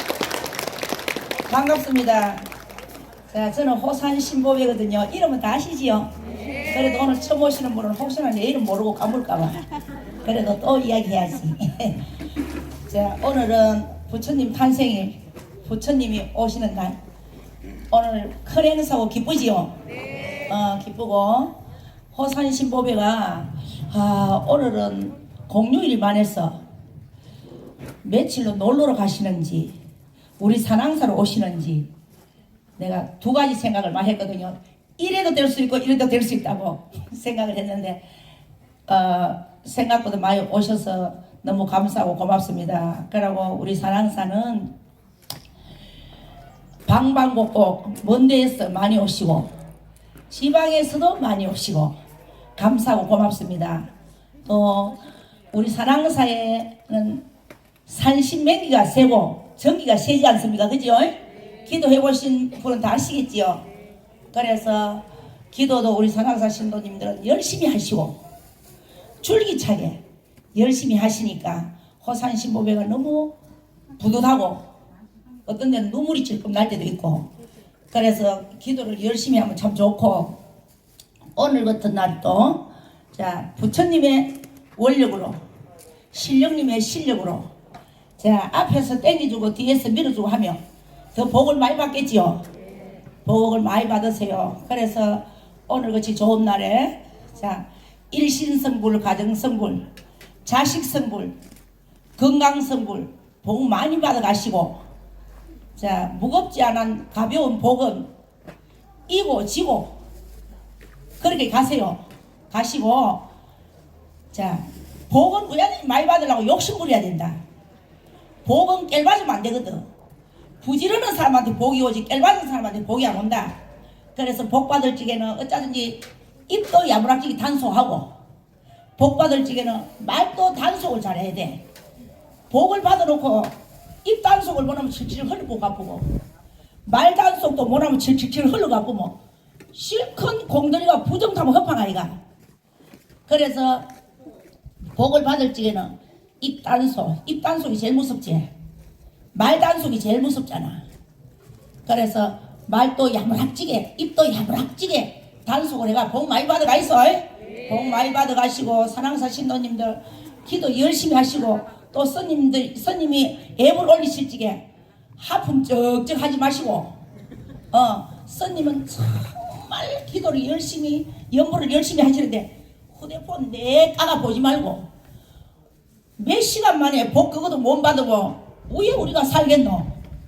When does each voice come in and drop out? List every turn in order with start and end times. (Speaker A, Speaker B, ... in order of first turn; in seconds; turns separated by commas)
Speaker A: 1.5-2.4, Speaker A: 3.3-6.1, Speaker A: 6.7-9.6, Speaker A: 10.2-12.0, Speaker A: 12.9-17.0, Speaker A: 17.9-19.8, Speaker A: 20.5-21.6, Speaker A: 22.1-26.6, Speaker A: 28.0-29.8, Speaker A: 30.4-31.9, Speaker A: 32.8-38.0, Speaker A: 38.9-44.7, Speaker A: 46.8-49.5, Speaker A: 50.3-51.9, Speaker A: 52.5-53.9, Speaker A: 54.4-55.0, Speaker A: 55.5-57.2, Speaker A: 57.9-63.6, Speaker A: 64.3-68.2, Speaker A: 69.2-70.0, Speaker A: 70.5-73.3, Speaker A: 74.0-74.7, Speaker A: 75.5-77.3, Speaker A: 77.9-80.4, Speaker A: 81.3-85.4, Speaker A: 86.1-87.5, Speaker A: 88.2-90.6, Speaker A: 91.1-92.4, Speaker A: 93.2-99.8, Speaker A: 100.4-101.3, Speaker A: 102.2-104.8, Speaker A: 105.8-108.1, Speaker A: 109.1-109.9, Speaker A: 111.2-113.3, Speaker A: 114.3-117.4, Speaker A: 118.4-119.9, Speaker A: 120.6-123.6, Speaker A: 124.1-128.1, Speaker A: 129.0-131.6, Speaker A: 132.5-136.1, Speaker A: 136.8-139.2, Speaker A: 139.7-142.1, Speaker A: 143.3-143.9, Speaker A: 144.9-148.5, Speaker A: 149.3-150.8, Speaker A: 151.8-164.6, Speaker A: 165.2-167.0, Speaker A: 167.7-174.9, Speaker A: 176.2-179.9